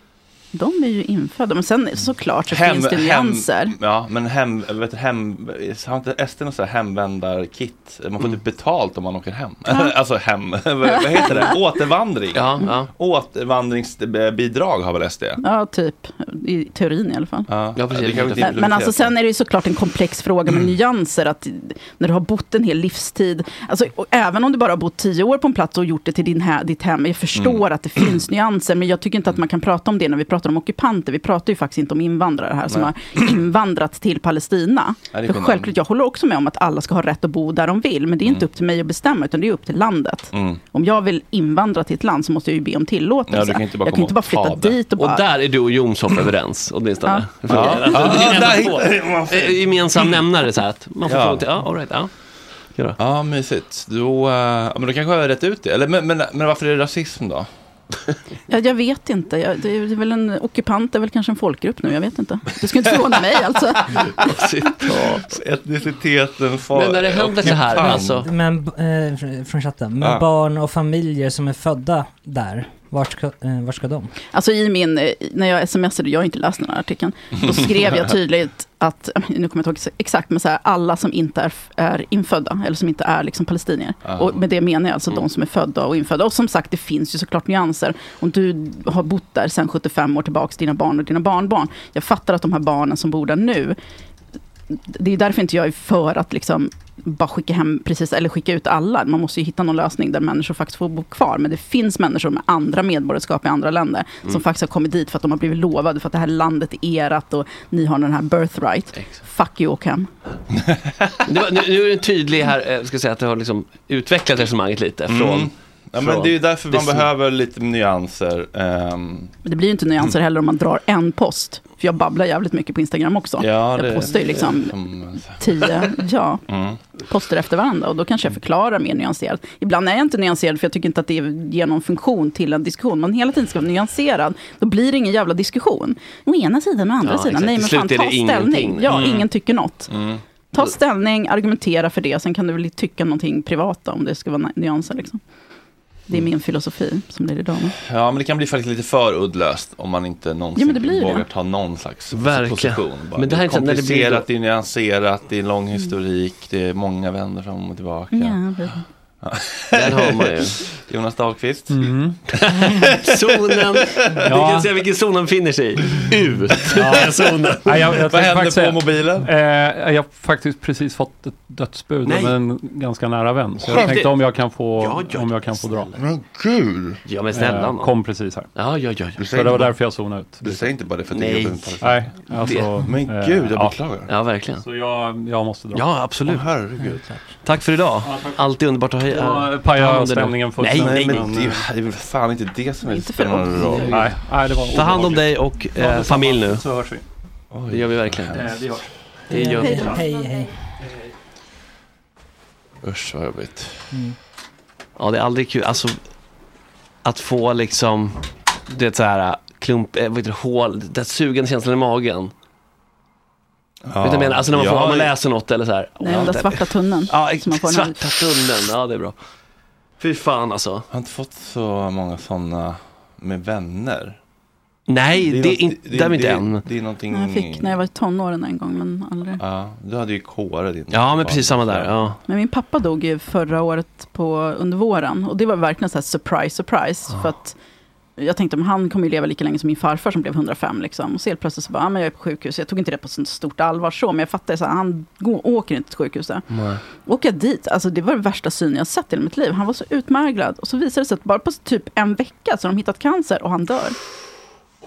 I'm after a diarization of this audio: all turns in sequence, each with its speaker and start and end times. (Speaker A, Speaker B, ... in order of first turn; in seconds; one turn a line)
Speaker A: 0.5-3.8
Speaker B: 2.5-15.4
Speaker A: 9.7-9.9
Speaker C: 12.3-12.9
Speaker A: 15.4-17.5
Speaker B: 17.5-19.1
Speaker C: 17.8-18.6
Speaker A: 18.4-45.3
Speaker B: 27.4-28.2
Speaker B: 32.7-33.3
Speaker B: 35.1-35.7
Speaker B: 40.3-40.6
Speaker B: 43.3-44.8
Speaker C: 45.0-53.0
Speaker A: 47.1-48.0
Speaker B: 47.5-50.2
Speaker B: 51.0-51.6
Speaker B: 53.0-57.5
Speaker A: 58.5-64.3
Speaker C: 64.3-65.3
Speaker B: 65.0-68.2
Speaker C: 66.7-68.3
Speaker D: 67.5-74.1
Speaker A: 74.3-93.8
Speaker B: 84.0-84.4
Speaker A: 94.9-110.1
Speaker C: 108.9-109.2
Speaker C: 111.3-117.1
Speaker B: 115.1-119.3
Speaker A: 119.5-126.5
Speaker B: 123.4-125.7
Speaker B: 126.5-126.8
Speaker A: 127.0-145.2
Speaker C: 137.0-139.2
Speaker B: 138.9-139.3
Speaker B: 139.9-140.2
Speaker A: 146.1-147.8
Speaker B: 147.8-158.6
Speaker A: 150.6-151.2
Speaker C: 152.1-154.3
Speaker A: 158.1-158.8
Speaker B: 159.2-162.8
Speaker C: 159.7-160.7
Speaker E: 161.7-162.2
Speaker C: 162.3-168.1
Speaker E: 164.3-164.8
Speaker B: 166.7-169.3
Speaker E: 166.7-175.9
Speaker C: 172.0-172.4
Speaker C: 173.7-175.9
Speaker B: 173.7-173.9
Speaker B: 176.0-177.0
Speaker C: 177.1-179.2
Speaker E: 177.3-180.8
Speaker B: 179.2-184.2
Speaker C: 181.1-182.8
Speaker E: 181.8-183.9
Speaker C: 184.1-184.7
Speaker E: 184.5-186.1
Speaker C: 185.7-186.6
Speaker B: 186.2-187.1
Speaker D: 186.8-187.3
Speaker C: 187.4-191.3
Speaker E: 188.0-191.7
Speaker B: 190.6-194.2
Speaker A: 192.8-194.0
Speaker C: 193.6-194.1
Speaker E: 193.7-197.1
Speaker C: 194.6-196.7
Speaker B: 197.5-198.7
Speaker C: 197.7-198.8
Speaker E: 198.3-200.0
Speaker C: 199.3-200.0
Speaker D: 199.3-200.6
Speaker A: 199.5-200.0
Speaker B: 202.8-203.9
Speaker D: 203.9-204.2
Speaker C: 205.0-206.0
Speaker C: 207.0-212.3
Speaker B: 213.8-215.1
Speaker C: 214.0-219.2
Speaker A: 216.0-218.0
Speaker C: 220.0-220.9
Speaker B: 220.9-224.2
Speaker C: 224.9-226.7
Speaker B: 225.2-227.8
Speaker A: 227.1-229.4
Speaker B: 229.4-231.9
Speaker C: 230.9-232.2
Speaker A: 232.3-237.6
Speaker A: 238.2-254.0
Speaker C: 246.5-246.8